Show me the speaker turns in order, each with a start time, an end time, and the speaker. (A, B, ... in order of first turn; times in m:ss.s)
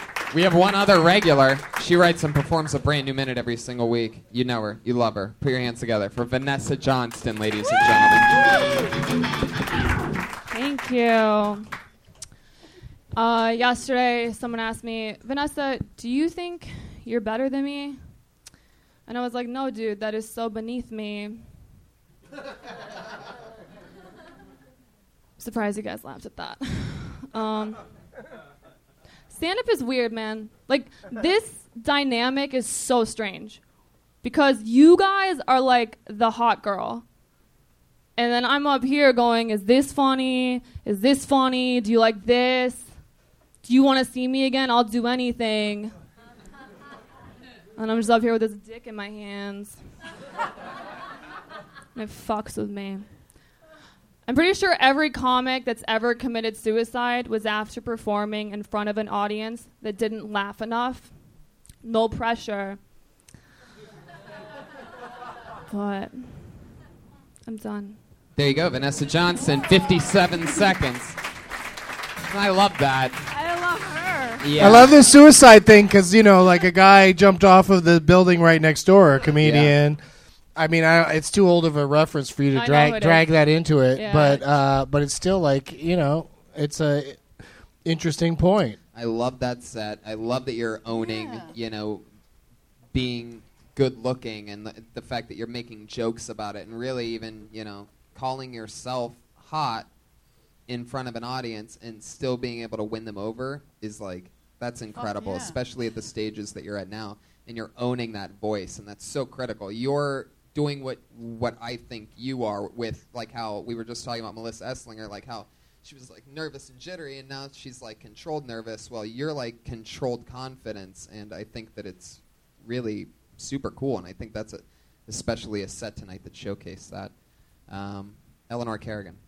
0:00.3-0:08.3 A
0:10.5-0:11.6 B
0:13.1-0:18.0 B
0:19.1-0:21.4 B
0:25.4-0:27.8 B
0:29.3-0:33.6 B
0:34.2-0:37.0 B
0:38.2-0:42.9 B
0:43.6-0:45.9 B
0:47.8-0:49.8 B
0:51.9-0:53.0 B
0:54.2-1:01.1 B
1:01.8-1:02.8 B
1:05.7-1:06.6 B
1:07.4-1:08.0 B
1:08.4-1:11.2 A
1:12.3-1:13.2 A
1:13.3-1:14.5 C
1:14.4-1:14.9 A
1:14.6-1:20.0 D
1:19.4-1:19.7 A
1:20.6-1:27.2 D
1:22.5-1:23.3 B
1:23.9-1:24.4 B
1:27.8-1:28.8 D
1:28.9-1:32.0 A
1:30.9-1:31.5 C
1:32.9-1:39.9 A
1:40.7-2:07.1 A
1:45.0-1:45.6 C
2:07.7-2:09.2 A